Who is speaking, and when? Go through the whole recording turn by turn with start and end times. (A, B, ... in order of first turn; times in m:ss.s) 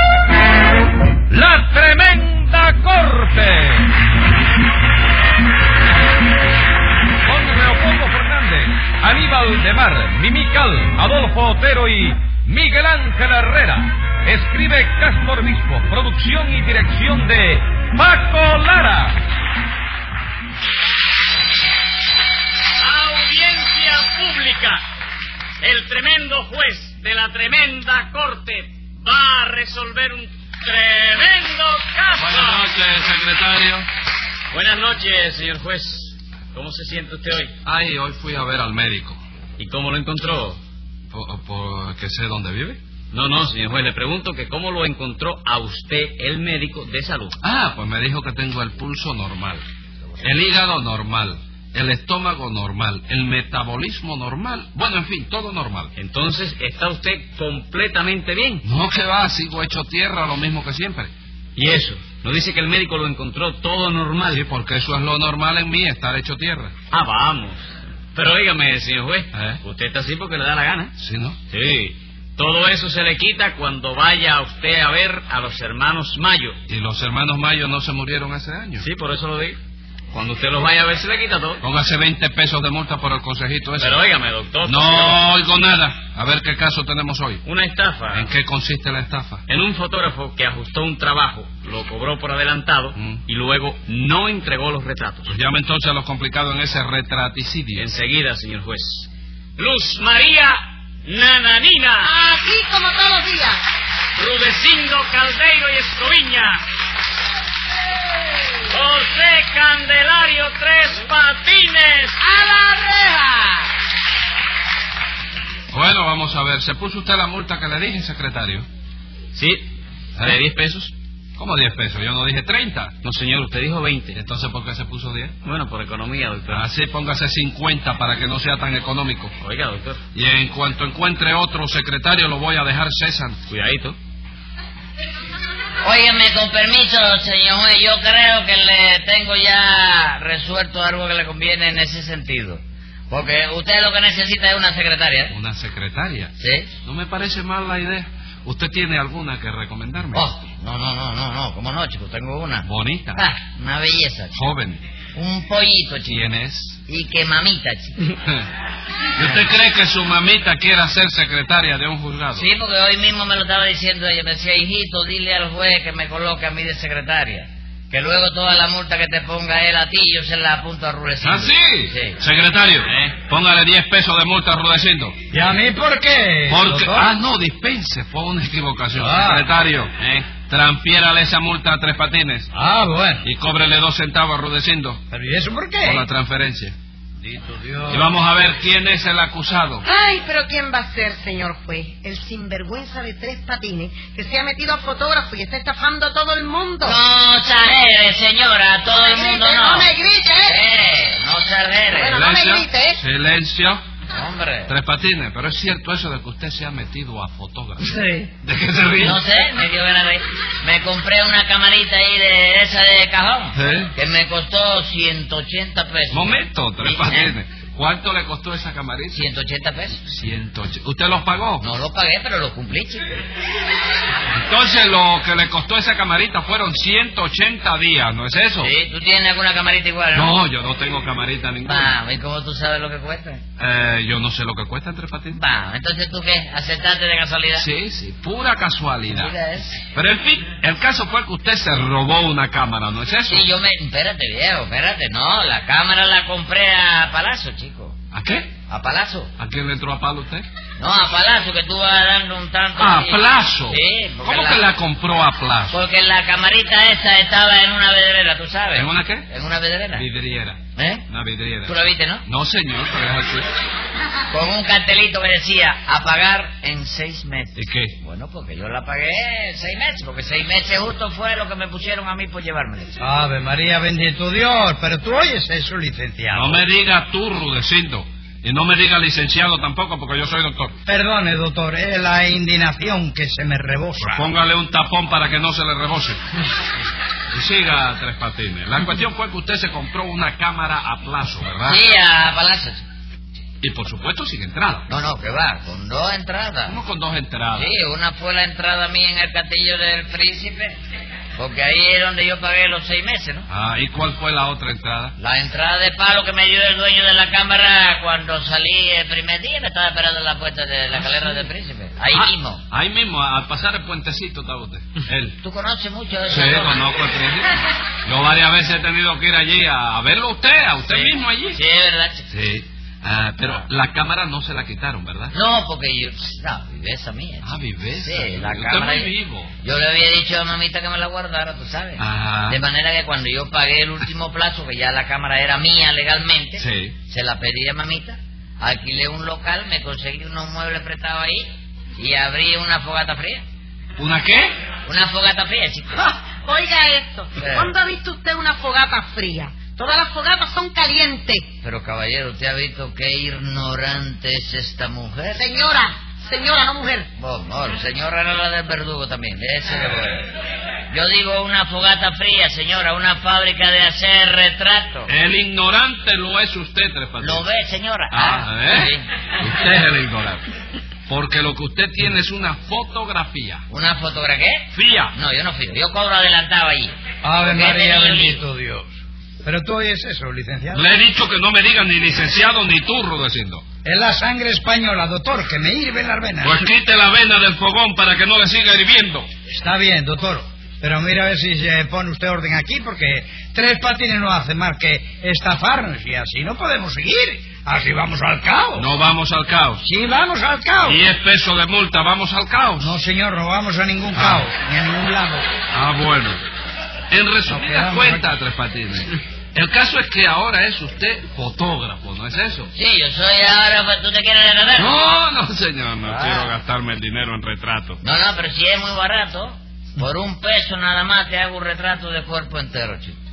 0:01.3-0:03.9 A
0:07.2-0:19.2 A
0:22.8-0:24.8 B
0:25.6-0:32.7 B
0:32.2-0:33.9 C
0:34.5-0:37.5 B
0:37.6-0:39.2 C
0:39.6-0:40.6 B
0:41.1-0:42.8 C
0:43.1-0:47.4 B
0:47.4-0:49.6 C
0:50.2-0:55.9 C
0:56.0-0:58.6 B
0:58.6-1:01.1 C
1:01.6-1:04.4 B
1:04.3-1:06.7 C
1:06.9-1:07.6 B
1:08.2-1:10.9 B
1:09.3-1:09.6 C
1:11.0-1:11.4 C
1:11.5-1:16.6 B
1:16.7-1:18.9 C
1:18.8-1:19.6 B
1:20.1-1:21.6 B
1:21.6-1:24.0 C
1:23.8-1:25.3 B
1:24.6-1:27.4 C
1:27.5-1:28.3 B
1:28.1-1:29.4 C
1:29.5-1:35.3 B
1:33.0-1:33.2 C
1:35.3-1:37.9 C
1:37.7-1:42.2 B
1:42.0-1:43.6 D
1:44.2-1:46.6 B
1:48.7-1:52.2 B
1:52.3-1:53.6 D
1:55.7-1:58.7 C
1:59.4-2:00.9 B
2:01.4-2:03.0 C
2:03.0-2:04.2 B
2:04.1-2:05.4 C
2:05.4-2:06.7 B
2:06.5-2:09.3 C
2:09.4-2:10.0 B
2:10.1-2:13.4 C
2:13.5-2:14.0 B
2:15.8-2:25.3 E
2:25.3-2:30.3 C
2:26.4-2:26.7 E
2:30.1-2:34.3 E
2:32.6-2:33.3 C
2:34.3-2:34.8 C
2:35.2-2:36.2 E
2:36.1-2:36.8 C
2:36.9-2:38.0 E
2:38.0-2:38.5 C
2:39.2-2:42.5 C
2:42.3-2:52.2 E
2:51.2-2:55.2 C
2:52.8-2:53.2 B
2:55.3-2:57.1 F
2:56.5-3:02.5 C
2:59.0-2:59.5 F
3:00.0-3:00.3 B
3:02.5-3:03.3 F
3:03.2-3:05.0 C
3:05.1-3:06.0 F
3:05.8-3:06.8 C
3:07.2-3:08.1 F
3:07.9-3:09.8 C
3:09.9-3:17.0 D
3:16.8-3:19.9 E
3:18.9-3:20.6 D
3:20.4-3:22.2 E
3:21.9-3:23.0 D
3:22.1-3:23.8 C
3:24.1-3:24.7 E
3:24.7-3:27.9 C
3:27.9-3:28.3 E
3:28.4-3:29.2 C
3:29.0-3:37.3 E
3:33.6-3:33.9 C
3:36.1-3:39.2 C
3:39.1-3:40.0 E
3:40.1-3:41.7 C
3:41.6-3:43.0 E
3:44.3-3:48.7 C
3:48.6-3:50.3 E
3:50.1-3:52.0 C
3:51.6-3:53.4 E
3:53.6-3:55.4 C
3:55.3-3:57.7 E
3:57.6-3:59.3 C
3:59.1-3:59.8 E
3:59.9-4:03.5 C
4:03.3-4:08.0 E
4:08.1-4:08.5 C
4:08.7-4:09.3 E
4:09.4-4:10.5 C
4:10.8-4:14.6 E
4:12.8-4:15.8 C
4:15.7-4:20.0 E
4:18.7-4:19.3 C
4:19.9-4:23.5 C
4:20.8-4:21.0 E
4:21.7-4:22.2 E
4:24.3-4:32.9 E
4:27.6-4:27.9 C
4:33.0-4:36.6 F
4:36.3-4:40.8 C
4:40.9-4:44.3 F
4:44.0-4:46.2 C
4:47.3-4:51.8 C
4:51.6-4:52.8 E
4:53.6-4:54.9 C
4:54.9-4:56.8 E
4:56.7-4:57.7 C
4:57.5-5:00.8 E
5:01.4-5:03.5 E
5:03.5-5:05.2 C
5:05.2-5:12.6 E
5:12.1-5:15.4 C
5:15.4-5:16.8 E
5:16.3-5:21.6 C
5:20.9-5:22.2 E
5:22.3-5:25.3 C
5:25.3-5:29.1 E
5:27.4-5:29.5 C
5:29.6-5:43.4 E
5:32.0-5:32.6 C
5:36.6-5:37.0 C
5:44.0-5:44.5 C
5:44.9-5:46.0 E
5:46.0-5:51.4 D
5:47.4-5:47.7 E
5:51.6-5:55.4 E
5:55.4-5:57.1 D
5:57.2-6:00.3 E
6:00.9-6:05.1 E
6:05.1-6:07.4 C
6:07.2-6:09.1 E
6:08.1-6:10.4 C
6:11.1-6:13.6 C
6:13.7-6:18.4 E
6:14.7-6:15.1 C
6:17.2-6:18.9 F
6:19.4-6:20.9 F
6:20.7-6:23.6 C
6:23.8-6:26.6 F
6:26.4-6:29.3 C
6:29.5-6:38.9 F
6:38.8-6:39.8 C
6:39.8-6:41.1 F
6:40.8-6:43.0 C
6:42.8-6:45.5 F
6:44.1-6:44.5 C
6:45.7-6:46.4 C
6:47.1-6:52.7 C
6:47.5-6:48.3 F
6:52.7-6:55.0 E
6:54.8-6:58.0 C
6:56.0-6:56.5 E
6:58.0-7:03.2 E